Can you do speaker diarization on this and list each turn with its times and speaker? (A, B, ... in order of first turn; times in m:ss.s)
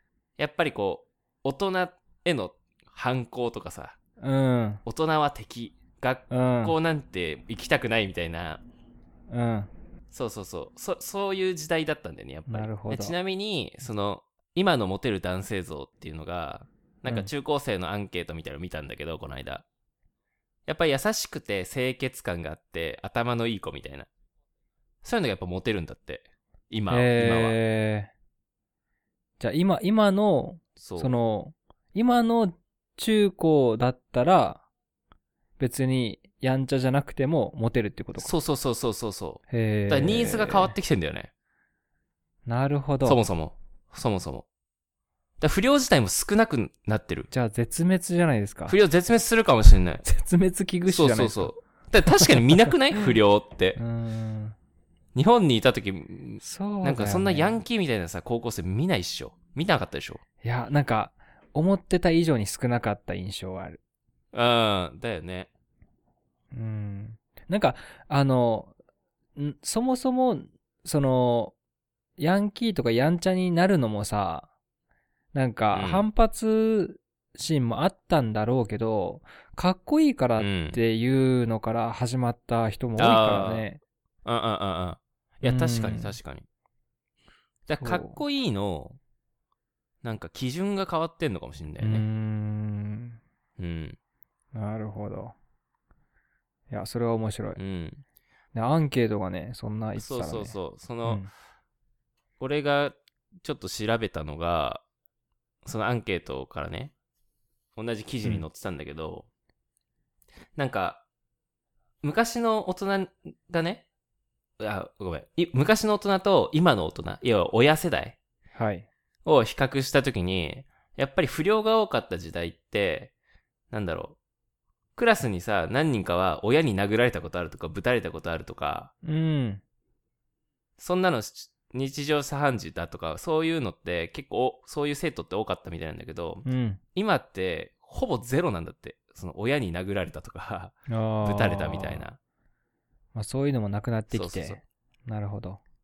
0:00.4-0:04.0 A
0:04.2-0:04.8 B
0:04.8-0:08.6 A
0:06.3-0:06.7 B
0:09.3-0:09.7 B
0:10.1-0:19.6 A
0:12.5-0:13.1 B
0:17.0-0:17.3 B
0:20.7-0:24.1 A
0:25.0-0:27.6 A
0:26.9-0:28.1 B
0:29.4-0:34.6 B
0:30.8-0:31.2 A
0:35.6-0:38.3 B
0:38.2-0:41.3 A
0:39.5-0:40.8 B
0:42.4-0:43.2 B
0:43.0-0:44.4 A
0:45.4-0:47.3 A
0:47.3-0:48.8 B
0:48.7-0:50.0 A
0:50.0-0:52.4 B
0:50.8-0:53.8 A
0:53.8-0:54.6 B
0:55.1-1:00.2 A
0:56.4-0:57.6 B
1:00.4-1:03.8 B
1:04.3-1:05.5 A
1:06.5-1:08.7 B
1:09.4-1:11.5 B
1:12.2-1:14.5 B
1:15.3-1:23.8 B
1:15.7-1:16.0 A
1:20.4-1:20.8 A
1:23.0-1:23.7 A
1:24.2-1:26.4 A
1:25.4-1:26.2 B
1:27.7-1:29.0 A
1:27.8-1:28.2 B
1:30.0-1:32.0 A
1:31.8-1:33.2 B
1:33.6-1:34.0 A
1:34.5-1:35.4 B
1:36.7-1:37.6 B
1:37.6-1:38.0 A
1:38.5-1:41.3 B
1:40.0-1:41.2 A
1:42.4-1:44.8 A
1:45.6-1:46.9 A
1:47.8-1:49.3 A
1:50.6-1:51.0 A
1:52.0-1:53.8 A
1:54.6-1:58.2 A
1:58.5-1:58.9 B
1:59.2-2:03.1 A
2:03.7-2:04.2 A
2:05.0-2:08.9 A
2:09.0-2:09.6 B
2:10.8-2:22.2 A
2:16.4-2:16.8 B
2:20.9-2:22.1 B
2:23.1-2:25.6 B
2:24.1-2:24.6 A